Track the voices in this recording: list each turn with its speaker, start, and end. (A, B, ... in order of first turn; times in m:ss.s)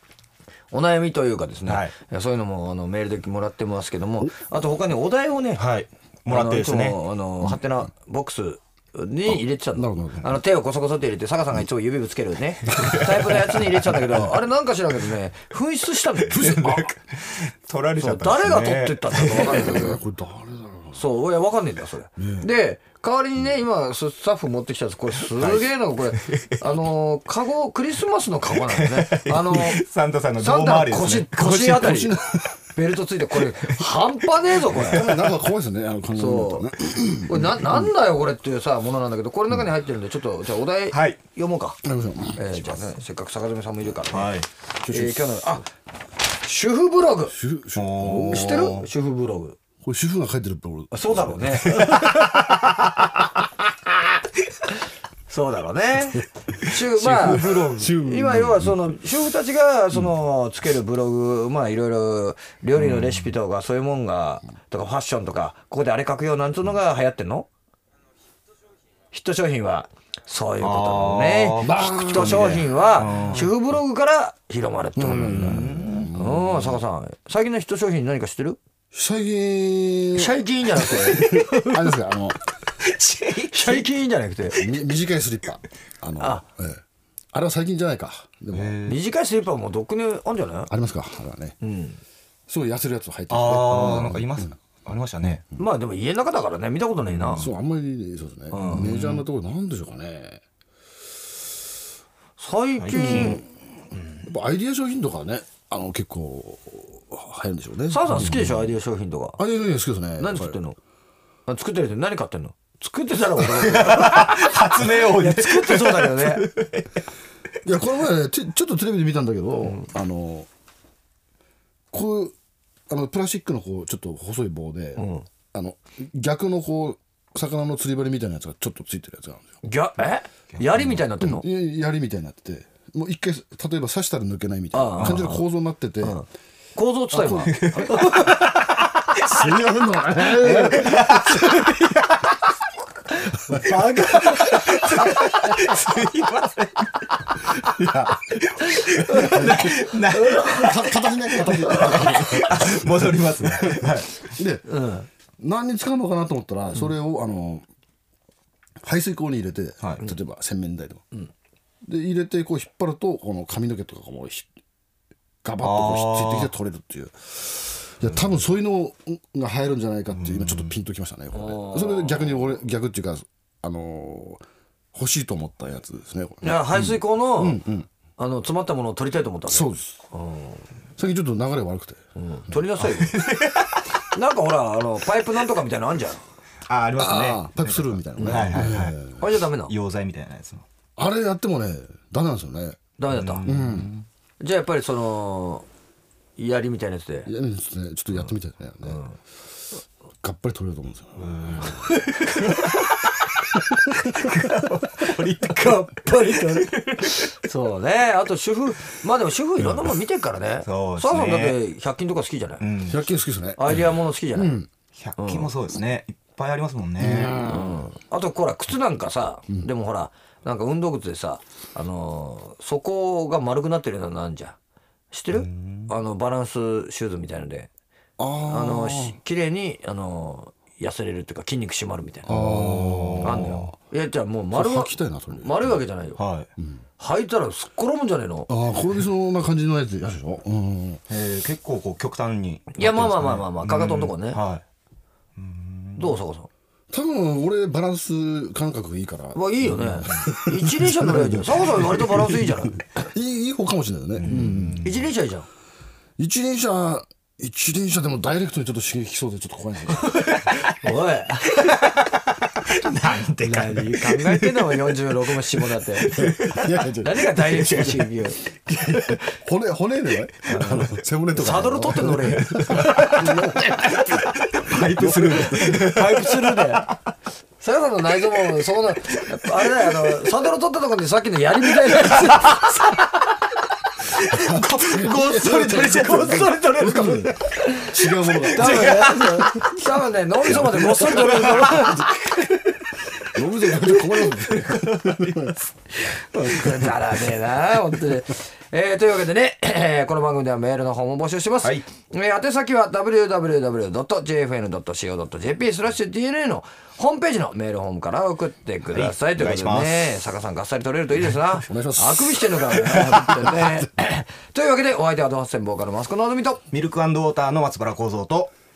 0:00.7-0:05.6 A
0:01.6-0:01.9 B
0:05.6-0:07.0 B
0:06.3-0:16.8 A
0:09.3-0:10.4 C
0:12.8-0:13.3 B
0:12.8-0:13.5 C
0:16.3-0:20.0 B
0:16.4-0:16.9 C
0:18.0-0:20.0 A
0:19.3-0:21.0 C
0:20.9-0:29.8 A
0:22.2-0:22.5 C
0:25.3-0:26.6 B
0:28.5-0:32.5 B
0:30.4-0:32.2 A
0:31.6-0:32.4 C
0:32.7-0:35.2 A
0:33.3-0:33.8 B
0:34.7-0:35.4 B
0:34.7-0:37.9 C
0:36.1-0:36.7 A
0:37.3-0:41.8 A
0:40.9-0:41.2 B
0:41.8-0:42.8 C
0:42.4-0:44.3 A
0:44.1-0:44.5 B
0:44.8-0:45.6 C
0:44.9-0:45.7 A
0:46.4-0:47.4 A
0:47.3-0:48.7 C
0:47.7-0:48.9 B
0:48.0-0:49.6 A
0:49.8-0:52.1 C
0:50.9-0:52.1 A
0:51.6-0:52.6 B
0:55.3-1:07.5 A
0:56.6-0:58.9 C
0:57.1-0:57.8 B
1:02.8-1:03.3 B
1:09.1-1:18.6 A
1:10.6-1:13.5 B
1:11.6-1:12.6 C
1:15.0-1:16.8 C
1:15.0-1:16.1 B
1:18.9-1:22.4 C
1:20.1-1:21.7 A
1:22.8-1:23.9 B
1:23.5-1:24.6 A
1:24.5-1:26.8 C
1:27.3-1:28.9 C
1:28.5-1:29.0 B
1:28.9-1:30.7 A
1:30.7-1:31.6 C
1:31.6-1:32.0 A
1:32.5-1:34.5 C
1:33.3-1:35.4 B
1:35.6-1:37.5 A
1:37.3-1:40.4 C
1:38.5-1:38.9 A
1:38.6-1:39.2 B
1:42.4-1:43.4 A
1:42.8-1:43.4 B
1:42.9-1:43.5 C
1:44.2-1:48.5 C
1:47.9-1:49.4 A
1:48.1-1:48.6 B
1:49.4-1:50.6 C
1:50.2-1:50.8 A
1:51.5-1:56.5 A
1:53.4-1:56.9 B
1:57.6-2:00.5 C
2:01.9-2:02.3 C
2:02.9-2:09.5 C
2:05.0-2:05.2 A
2:09.6-2:11.4 A
2:10.5-2:10.9 B
2:10.8-2:16.2 C
2:14.7-2:15.4 A
2:15.0-2:15.3 B
2:16.0-2:18.6 A
2:17.1-2:18.4 C
2:17.5-2:18.4 B
2:19.3-2:19.5 B
2:19.3-2:21.0 C
2:20.4-2:21.8 A
2:20.6-2:22.4 B
2:23.1-2:25.4 A
2:24.2-2:34.3 B
2:27.8-2:28.1 C
2:28.7-2:30.7 A
2:29.2-2:29.7 C
2:30.4-2:33.8 C
2:31.7-2:32.2 A
2:34.3-2:34.8 C
2:34.7-2:35.1 A
2:35.4-2:37.6 C
2:38.8-2:41.0 C
2:39.8-2:40.1 B
2:41.8-2:44.5 C
2:45.4-2:54.4 C
2:45.6-2:46.5 B
2:50.1-2:50.7 B
2:51.3-2:52.4 A
2:54.9-2:57.9 C
2:56.4-2:57.6 A
2:58.2-3:00.6 A
2:59.5-3:00.0 C
3:01.0-3:02.0 C
3:02.2-3:03.2 A
3:02.8-3:03.8 B
3:04.1-3:06.2 A
3:06.6-3:10.6 B
3:07.0-3:09.1 C
3:08.2-3:09.7 A
3:11.0-3:12.8 C
3:13.0-3:13.5 A
3:13.1-3:14.0 B
3:13.4-3:13.9 C
3:14.4-3:15.6 A
3:16.4-3:17.3 A
3:17.2-3:19.0 C
3:20.2-3:21.8 C
3:21.2-3:23.2 B
3:24.0-3:32.6 A
3:24.7-3:27.3 B
3:30.6-3:31.6 B
3:32.6-3:33.0 B
3:32.9-3:34.7 C
3:33.6-3:34.6 A
3:34.9-3:37.4 B
3:35.2-3:35.5 A
3:37.0-3:37.9 C
3:37.4-3:44.6 A
3:45.1-3:47.7 A
3:45.3-3:45.9 B
3:48.2-3:49.2 C
3:48.5-3:52.4 A
3:52.2-3:53.6 C
3:52.3-3:53.7 B
3:53.2-3:56.2 A
3:54.5-3:55.8 C
3:56.2-3:56.5 B
3:57.0-3:58.5 A
3:58.5-4:01.0 C
4:01.1-4:04.6 B
4:02.8-4:04.4 A
4:05.4-4:06.2 B
4:06.0-4:06.5 A
4:06.9-4:14.9 C
4:09.3-4:12.8 A
4:14.2-4:15.0 B
4:14.3-4:15.5 A
4:16.2-4:20.3 C
4:20.0-4:21.8 A
4:21.5-4:25.4 B
4:23.4-4:26.2 A
4:26.0-4:28.2 B
4:26.1-4:27.3 C
4:26.9-4:29.1 A
4:28.8-4:35.9 C
4:30.5-4:33.3 A
4:32.0-4:36.9 B
4:35.3-4:36.9 A
4:37.6-4:42.6 A
4:39.2-4:39.9 B
4:41.8-4:43.0 B
4:44.2-4:45.4 B
4:44.3-4:49.5 C
4:44.8-4:52.2 A
4:48.2-4:49.8 B
4:50.5-4:52.6 B
4:50.5-4:51.1 C
4:53.2-4:55.6 C
4:53.6-4:55.7 B
4:56.0-5:16.6 A
4:56.4-4:56.8 C
5:08.9-5:10.2 B
5:11.6-5:13.8 C
5:16.7-5:18.5 B